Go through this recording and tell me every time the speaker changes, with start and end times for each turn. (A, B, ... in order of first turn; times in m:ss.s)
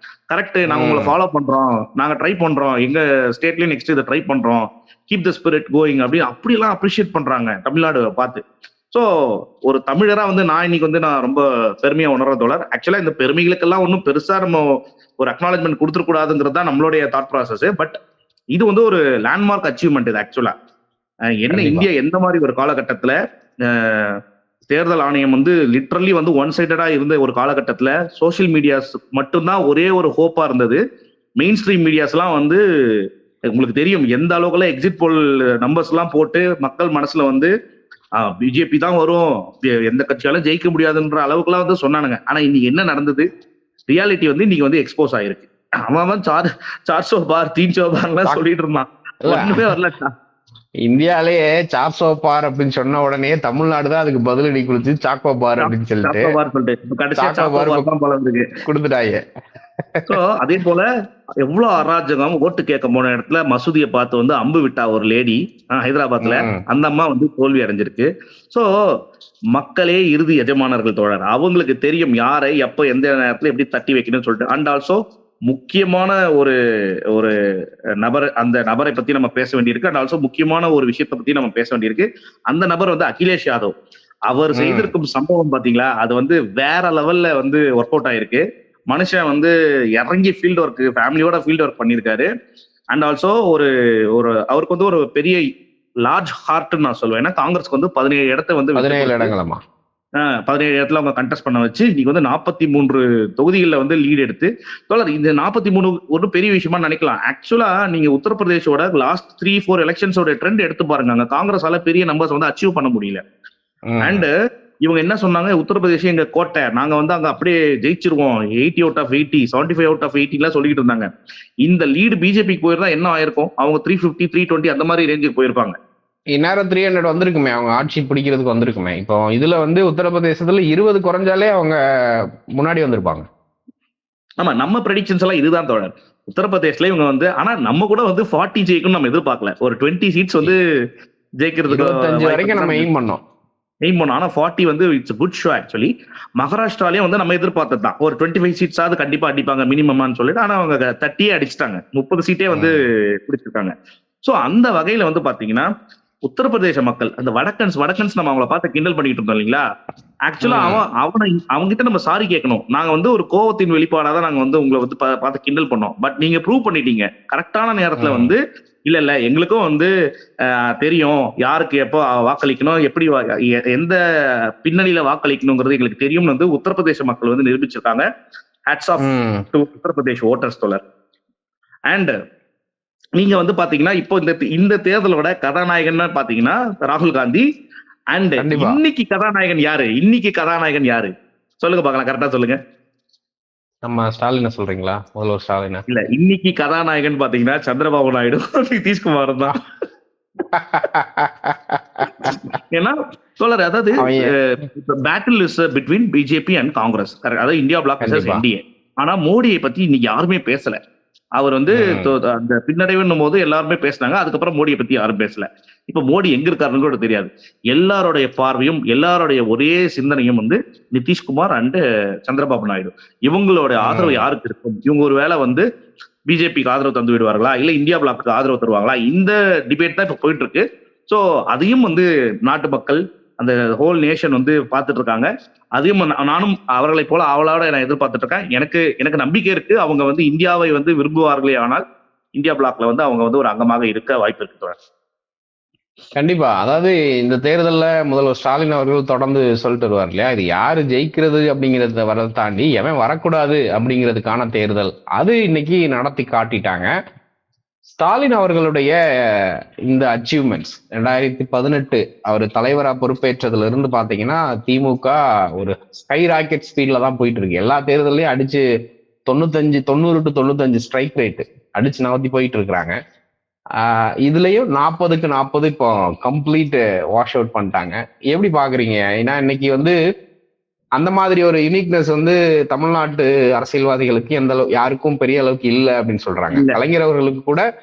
0:00.3-0:09.0 A
0:00.7-0:01.1 B
0:09.7-0:14.6 A
0:15.2-0:17.9 A
0:18.5-0:20.5 A
0:21.4-0:24.2 A
0:21.5-0:21.9 B
0:24.7-0:30.8 A
0:31.4-0:32.6 A
0:33.5-0:37.5 A
0:38.2-0:43.3 A
0:43.9-0:50.1 A
0:49.2-0:49.6 B
0:50.9-0:56.3 B
0:55.6-0:58.6 A
0:57.2-0:57.8 B
0:58.6-0:59.2 B
1:00.1-1:00.9 A
1:01.4-1:08.7 A
1:06.2-1:06.6 B
1:09.5-1:16.5 A
1:18.0-1:23.7 A
1:24.3-1:32.3 A
1:24.5-1:24.9 B
1:32.9-1:35.4 A
1:36.0-1:39.3 A
1:38.8-1:39.6 B
1:40.2-1:53.2 A
1:53.9-1:54.2 B
1:54.0-1:54.3 A
1:54.8-2:01.1 A
2:01.6-2:05.8 A
2:06.3-2:11.8 B
2:12.6-2:13.2 B
2:14.4-2:20.6 A
2:21.4-2:22.9 A
2:21.7-2:23.2 B
2:23.8-2:35.7 A
2:32.5-2:32.8 B
2:36.2-2:39.6 A
2:40.3-2:49.9 A
2:40.4-2:40.8 B
2:48.0-2:48.3 B
2:50.5-2:54.0 A
2:54.6-2:58.0 A
2:58.7-3:00.8 A
2:59.0-2:59.4 B
3:01.9-3:02.1 A
3:03.2-3:07.4 A
3:08.1-3:12.6 A
3:08.4-3:08.8 B
3:13.8-3:15.8 B
3:15.9-3:19.6 A
3:20.5-3:22.4 B
3:22.7-3:30.8 A
3:24.0-3:24.3 B
3:28.0-3:28.4 B
3:31.4-3:45.6 A
3:31.8-3:32.1 B
3:43.8-3:44.2 B
3:46.3-4:01.8 A
4:02.4-4:04.8 A
4:06.2-4:16.9 B
4:17.9-4:28.6 B
4:29.3-4:32.9 B
4:33.8-4:39.9 B
4:41.0-4:47.6 B